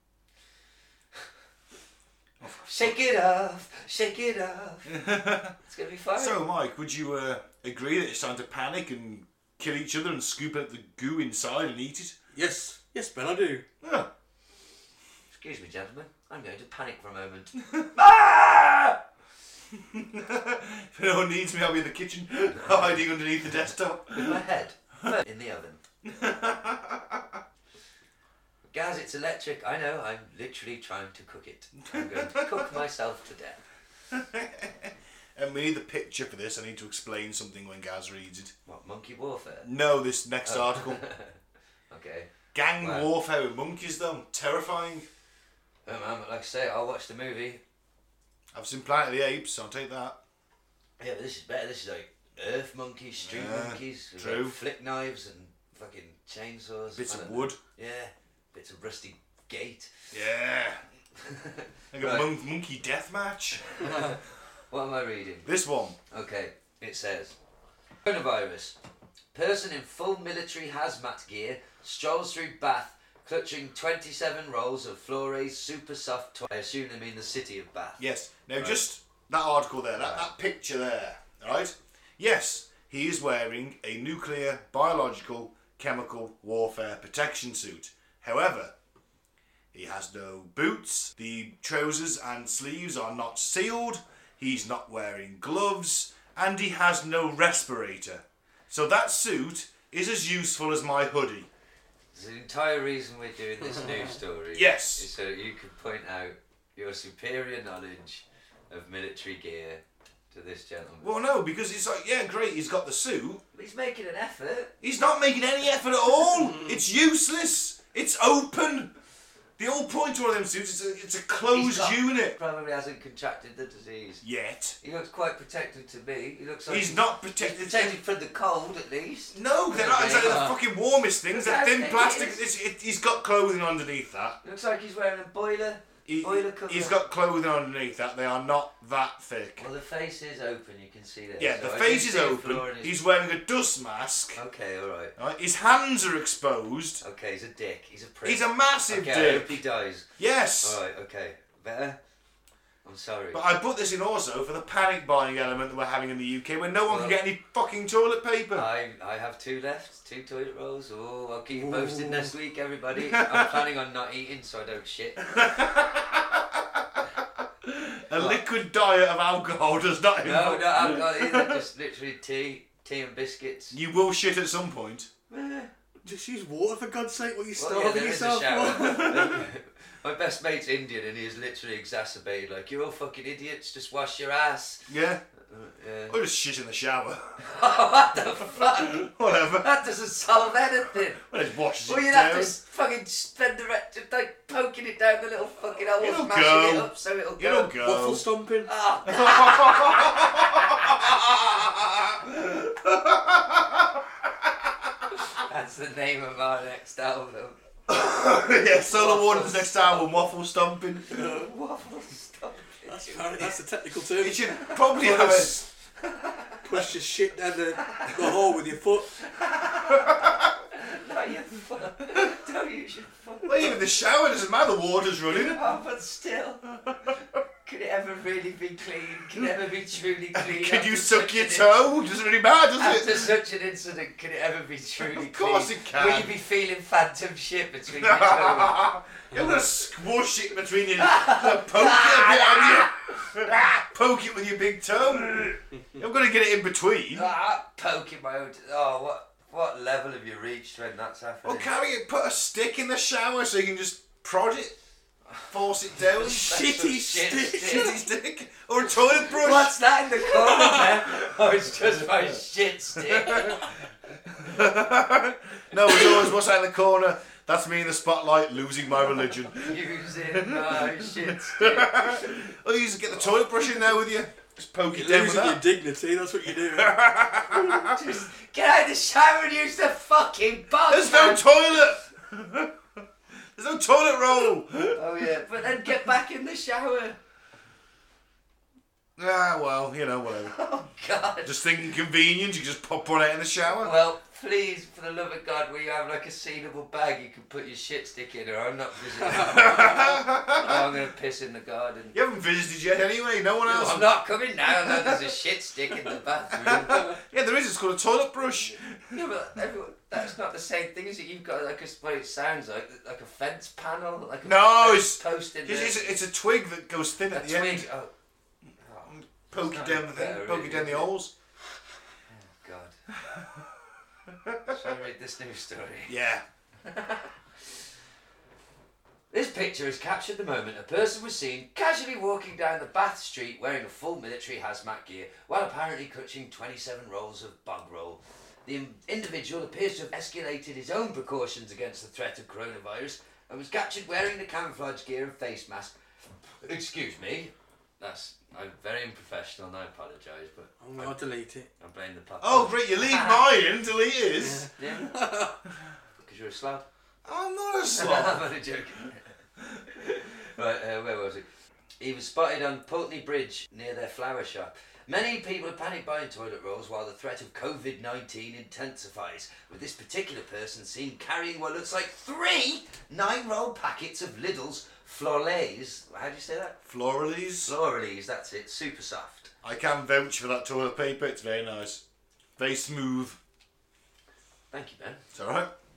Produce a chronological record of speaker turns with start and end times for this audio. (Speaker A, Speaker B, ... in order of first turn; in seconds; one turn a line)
Speaker A: 2.4-3.0
Speaker B: 2.6-5.0
Speaker A: 4.8-5.5
Speaker B: 5.6-6.4
Speaker A: 6.2-12.2
Speaker C: 12.3-13.6
Speaker A: 13.8-14.1
Speaker B: 15.3-19.0
Speaker A: 19.7-24.4
Speaker B: 24.1-25.8
Speaker A: 26.0-27.4
Speaker B: 28.7-33.6
Speaker A: 31.8-32.8
Speaker A: 34.1-38.5
Speaker B: 38.6-39.7
Speaker A: 39.6-41.0
Speaker B: 40.5-41.3
Speaker B: 41.9-43.1
Speaker A: 42.5-45.1
Speaker B: 45.9-47.6
Speaker A: 48.5-50.2
Speaker B: 51.0-60.1
Speaker A: 53.2-54.6
Speaker A: 56.9-57.6
Speaker A: 60.1-60.8
Speaker B: 61.2-62.3
Speaker A: 61.9-63.6
Speaker B: 63.8-64.2
Speaker C: 63.8-64.1
Speaker B: 64.7-65.5
Speaker A: 65.4-66.0
Speaker B: 66.1-67.4
Speaker B: 68.0-68.8
Speaker B: 69.3-78.0
Speaker A: 78.0-88.7
Speaker B: 78.5-78.8
Speaker B: 80.0-80.3
Speaker A: 89.7-101.5
Speaker B: 102.1-111.2
Speaker A: 104.5-105.1
Speaker A: 111.0-113.4
Speaker B: 113.5-114.7
Speaker A: 114.8-118.9
Speaker A: 119.6-122.4
Speaker B: 121.5-124.2
Speaker A: 124.2-124.8
Speaker B: 124.8-130.5
Speaker A: 126.7-128.0
Speaker A: 129.3-134.4
Speaker C: 130.2-130.5
Speaker B: 131.3-132.4
Speaker B: 134.4-137.0
Speaker A: 136.1-139.7
Speaker B: 139.6-143.0
Speaker A: 141.4-144.4
Speaker B: 144.3-145.1
Speaker A: 145.2-147.0
Speaker B: 147.0-150.1
Speaker A: 148.2-149.6
Speaker A: 150.2-150.8
Speaker B: 150.6-152.0
Speaker B: 152.8-153.4
Speaker A: 153.3-158.7
Speaker B: 156.9-157.2
Speaker B: 158.5-165.3
Speaker C: 161.6-162.3
Speaker A: 163.0-163.5
Speaker A: 165.3-166.6
Speaker A: 167.6-171.6
Speaker B: 170.2-173.8
Speaker A: 173.7-175.1
Speaker B: 175.3-175.7
Speaker C: 176.0-179.3
Speaker B: 177.6-184.9
Speaker A: 178.8-179.4
Speaker A: 184.9-185.2
Speaker B: 185.5-186.2
Speaker A: 186.1-187.4
Speaker B: 187.4-191.3
Speaker A: 188.6-189.7
Speaker A: 191.3-192.5
Speaker B: 191.8-197.7
Speaker A: 196.0-198.2
Speaker C: 197.8-198.7
Speaker B: 198.7-201.1
Speaker A: 199.1-204.0
Speaker B: 205.3-207.6
Speaker A: 207.9-211.1
Speaker B: 208.9-210.2
Speaker B: 211.1-213.5
Speaker C: 211.1-211.5
Speaker C: 212.9-215.7
Speaker A: 214.2-215.6
Speaker B: 216.1-216.5
Speaker C: 216.6-219.1
Speaker B: 217.9-218.2
Speaker B: 219.5-220.1
Speaker A: 219.9-220.3
Speaker B: 220.7-223.8
Speaker A: 223.4-225.6
Speaker B: 225.3-226.7
Speaker B: 227.6-232.0
Speaker A: 230.3-233.3
Speaker B: 232.8-238.9
Speaker A: 235.0-236.3
Speaker A: 238.0-247.3
Speaker C: 239.3-239.6
Speaker B: 241.0-243.4
Speaker B: 247.1-251.7
Speaker A: 251.4-254.8
Speaker B: 255.3-258.0
Speaker A: 255.4-256.7
Speaker C: 256.2-257.9
Speaker A: 257.5-259.7
Speaker B: 259.1-263.7
Speaker A: 263.1-263.6
Speaker A: 264.4-269.7
Speaker B: 269.6-272.4
Speaker A: 270.4-275.6
Speaker C: 274.9-276.9
Speaker A: 276.7-278.0
Speaker B: 277.6-281.4
Speaker A: 280.9-283.0
Speaker A: 283.6-285.0
Speaker B: 284.9-287.2
Speaker A: 289.2-290.6
Speaker B: 290.4-291.6
Speaker A: 291.4-293.9
Speaker B: 293.8-302.1
Speaker A: 299.4-300.8
Speaker C: 299.4-299.8
Speaker A: 302.1-304.1
Speaker B: 303.6-307.1
Speaker A: 304.8-305.3
Speaker A: 306.5-309.2
Speaker B: 308.7-316.1
Speaker A: 314.4-317.9
Speaker B: 317.3-318.1
Speaker B: 318.8-321.1
Speaker A: 319.1-321.3
Speaker B: 322.3-322.9
Speaker A: 323.2-323.6
Speaker A: 324.3-324.8
Speaker B: 324.7-326.1
Speaker A: 326.1-326.4
Speaker B: 326.8-327.3
Speaker B: 329.3-345.9
Speaker B: 346.6-351.1
Speaker C: 350.8-351.7
Speaker B: 351.8-353.4
Speaker A: 352.4-354.7
Speaker C: 354.4-355.6
Speaker B: 354.8-355.1
Speaker B: 356.2-356.9
Speaker A: 357.2-358.4
Speaker B: 357.9-359.3
Speaker B: 359.9-361.4
Speaker B: 362.0-376.8
Speaker A: 376.9-377.7
Speaker B: 377.6-379.5
Speaker A: 379.6-382.0
Speaker A: 382.6-383.4
Speaker B: 384.7-385.2
Speaker A: 385.3-385.7